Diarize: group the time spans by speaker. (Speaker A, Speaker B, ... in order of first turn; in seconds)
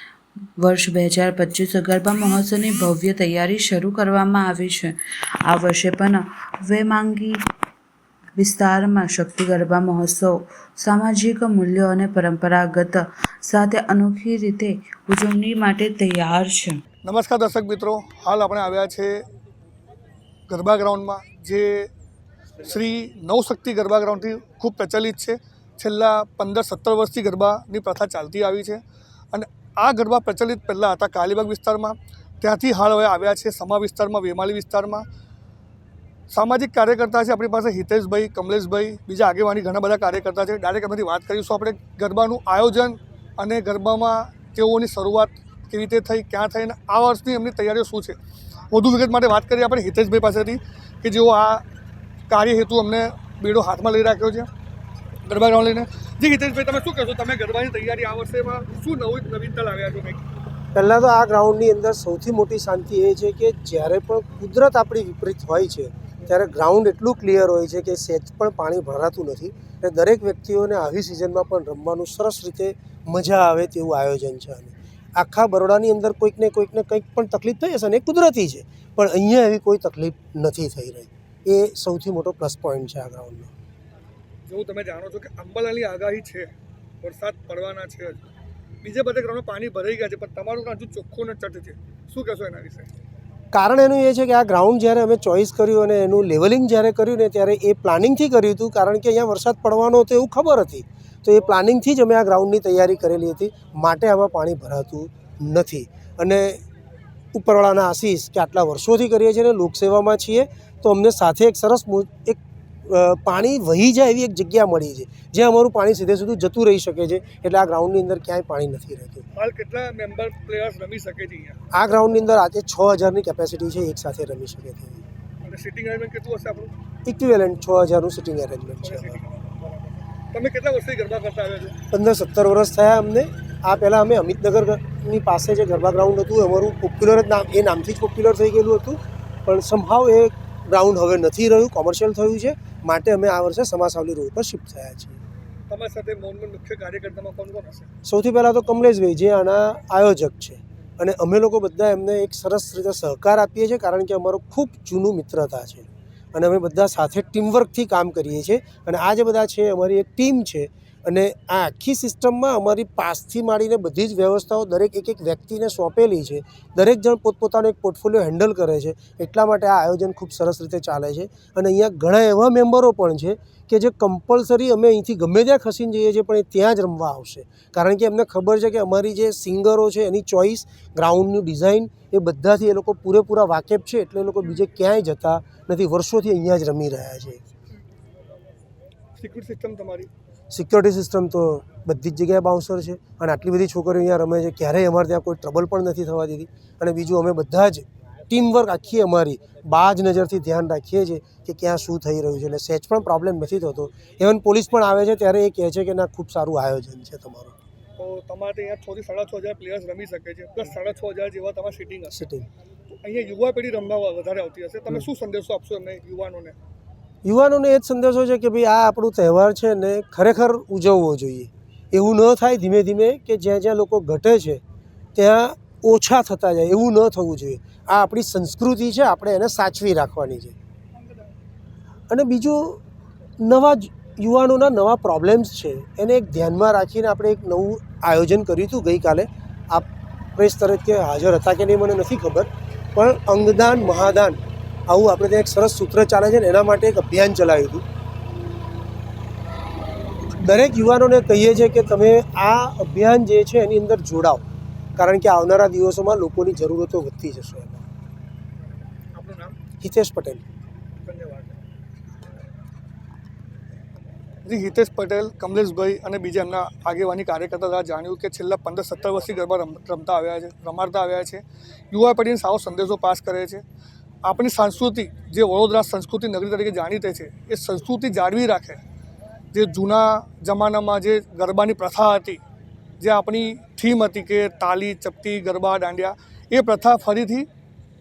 Speaker A: 0.6-7.4, 8.4-16.8
Speaker B: 17.0-19.2, 20.5-21.9, 22.6-28.8, 29.3-35.1, 36.3-48.2, 48.7-51.6, 52.3-54.5, 55.2-60.2, 84.5-88.3, 88.8-92.9, 119.3-121.6, 125.4-126.7, 128.8-131.8, 145.7-147.9, 189.2-190.1, 208.0-212.2, 212.9-216.6, 259.1-259.6, 261.0-261.6, 264.4-273.6, 274.2-278.8, 279.5-282.4, 283.0-287.5
Speaker C: 60.7-83.5, 93.5-106.6, 107.3-119.2, 121.7-125.0, 127.1-129.2, 131.9-145.2, 148.1-187.4, 190.5-207.6, 212.1-212.5, 217.2-224.6, 225.2-230.6, 232.1-232.8, 233.4-247.8, 250.4-254.4, 255.0-257.8, 259.8-260.4